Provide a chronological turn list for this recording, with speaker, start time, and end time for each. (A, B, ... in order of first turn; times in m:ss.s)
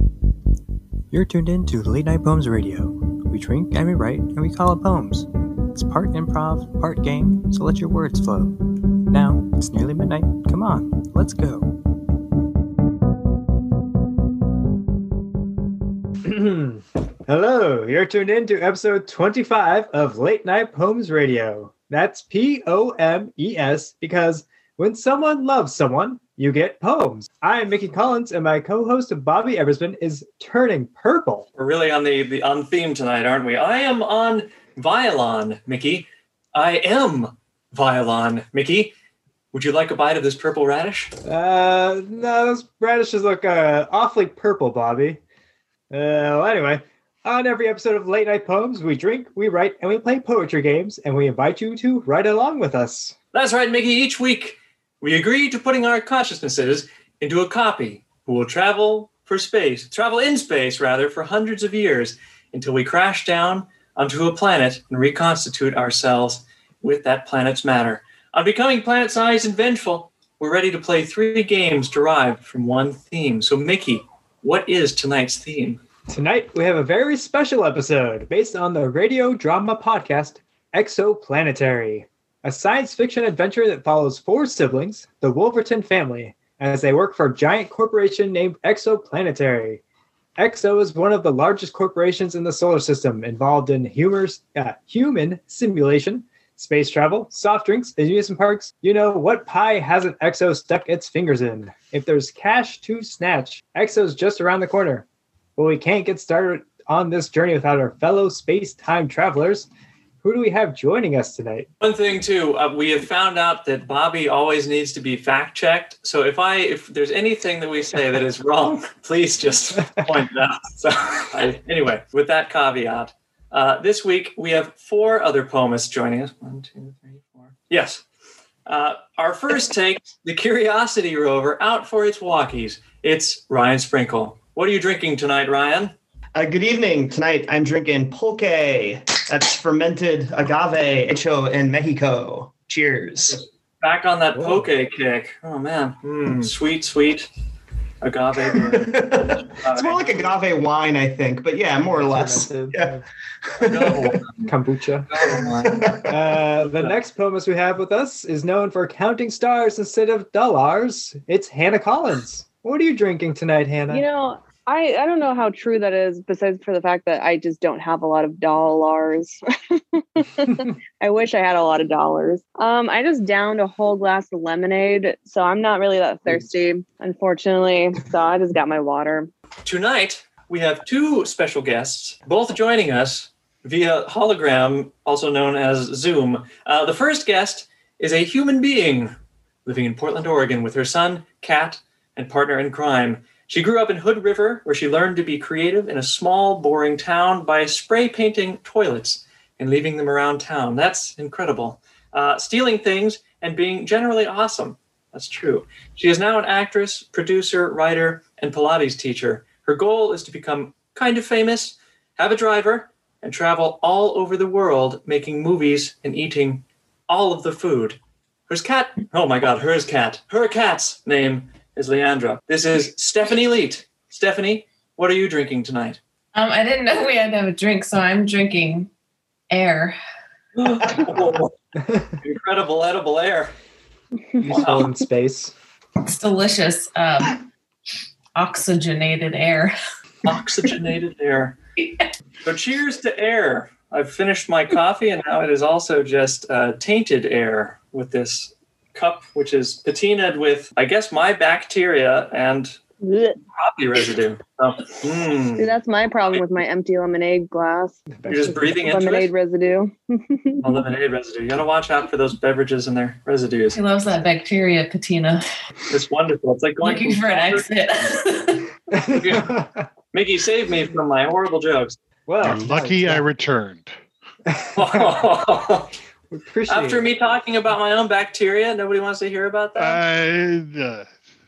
0:01.1-0:08.5 A
0:09.1-0:11.7 A
0:16.2-0:31.4 B
0:31.6-0:38.9 C
0:39.5-0:41.1 C
0:41.2-0:45.2 B
0:45.9-0:53.1 B
0:53.3-1:15.8 C
1:16.1-1:29.8 B
1:30.4-1:45.0 B
1:45.6-1:49.7 B
1:50.2-1:51.7 B
1:51.8-2:08.0 C
2:08.6-2:15.9 C
2:16.3-2:23.4 D
2:23.4-2:27.3 C
2:24.3-2:24.7 B
2:28.0-2:30.4 C
2:28.5-2:34.2 D
2:31.9-2:33.0 B
2:33.6-2:34.5 C
2:34.4-2:35.1 B
2:35.1-2:35.9 C
2:35.2-2:36.2 D
2:36.1-2:44.0 B
2:43.9-2:59.3 E
2:59.6-3:09.1 C
3:09.6-3:46.0 C
3:46.3-3:48.9 F
3:49.5-3:50.0 F
3:50.6-3:51.5 C
3:50.8-3:51.3 D
3:52.2-3:53.5 C
3:54.4-3:55.5 B
3:54.6-3:54.8 C
3:56.0-3:57.4 F
3:58.3-3:59.7 F
4:00.2-4:01.6 C
4:01.8-4:02.1 F
4:02.4-4:12.8 C
4:13.0-4:13.4 E
4:13.5-4:15.7 C
4:15.6-4:18.0 E
4:18.2-4:18.7 B
4:18.3-4:19.3 C
4:18.7-4:20.6 E
4:20.6-4:23.8 C
4:23.7-4:25.4 F
4:25.9-4:27.7 C
4:26.8-4:28.7 F
4:28.9-4:29.9 B
4:29.1-4:29.5 C
4:30.1-4:32.0 C
4:32.3-4:33.3 B
4:32.4-4:34.0 G
4:34.5-4:34.8 B
4:34.7-4:35.9 C
4:36.3-4:37.1 B
4:36.7-4:40.0 C
4:39.8-4:41.1 G